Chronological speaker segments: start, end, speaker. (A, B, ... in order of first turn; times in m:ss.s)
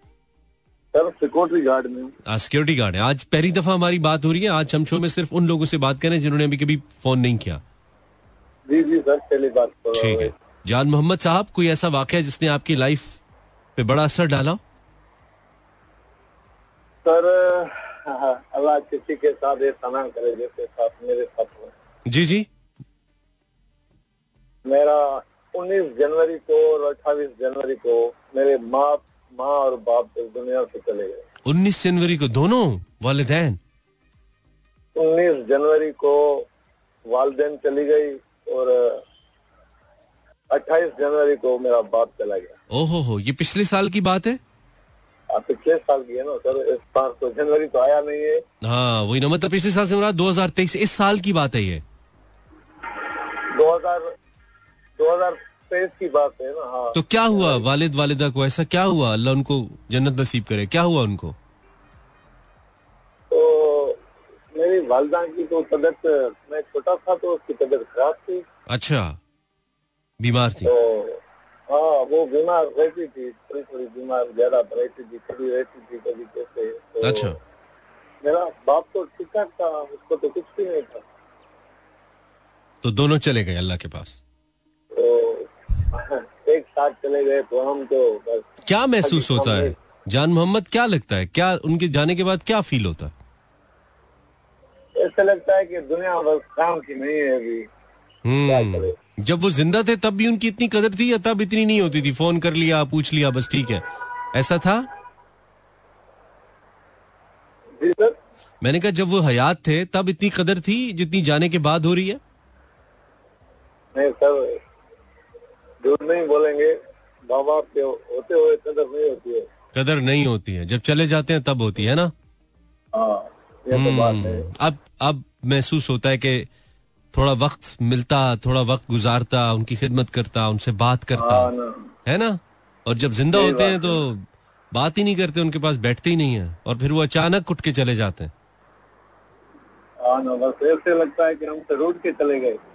0:00.9-0:02.1 A
0:02.3-0:07.6 B
0:08.7-0:10.3 A
0:09.9-0:13.2 B
0:13.8-0:14.6 B
0:17.0-0:21.7 A
0:22.1-0:22.5 B
0:24.6-0:31.2 A
0:31.4-0:33.6 B
0:35.0-0:36.4 A
0:37.1-0:39.0 A
0:40.5-0:42.5 A
0:42.7-0:44.4 B
0:45.3-0:48.4 A
0:48.6-0:51.8 B
0:53.1-0:54.0 A
0:55.0-0:57.6 A
0:56.9-1:01.4 B
1:03.3-1:04.0 A
1:04.5-1:08.4 A
1:08.7-1:09.2 B
1:10.2-1:10.7 B
1:10.6-1:11.2 A
1:11.7-1:17.3 A
1:17.0-1:17.4 B
1:18.2-1:21.0 A
1:22.8-1:24.2 B
1:24.9-1:28.4 A
1:28.7-1:33.1 B
1:29.0-1:29.7 A
1:35.0-1:37.7 A
1:38.2-1:44.8 B
1:38.4-1:38.9 A
1:47.8-1:48.2 A
1:48.6-1:52.2 B
1:53.9-1:54.6 A
1:55.8-1:56.7 A
1:57.3-1:59.4 A
1:59.7-2:02.1 B
2:02.9-2:04.4 A
2:03.7-2:06.5 B
2:07.1-2:11.5 B
2:11.2-2:11.8 A
2:12.0-2:18.3 B
2:13.3-2:14.0 A
2:20.0-2:22.6 A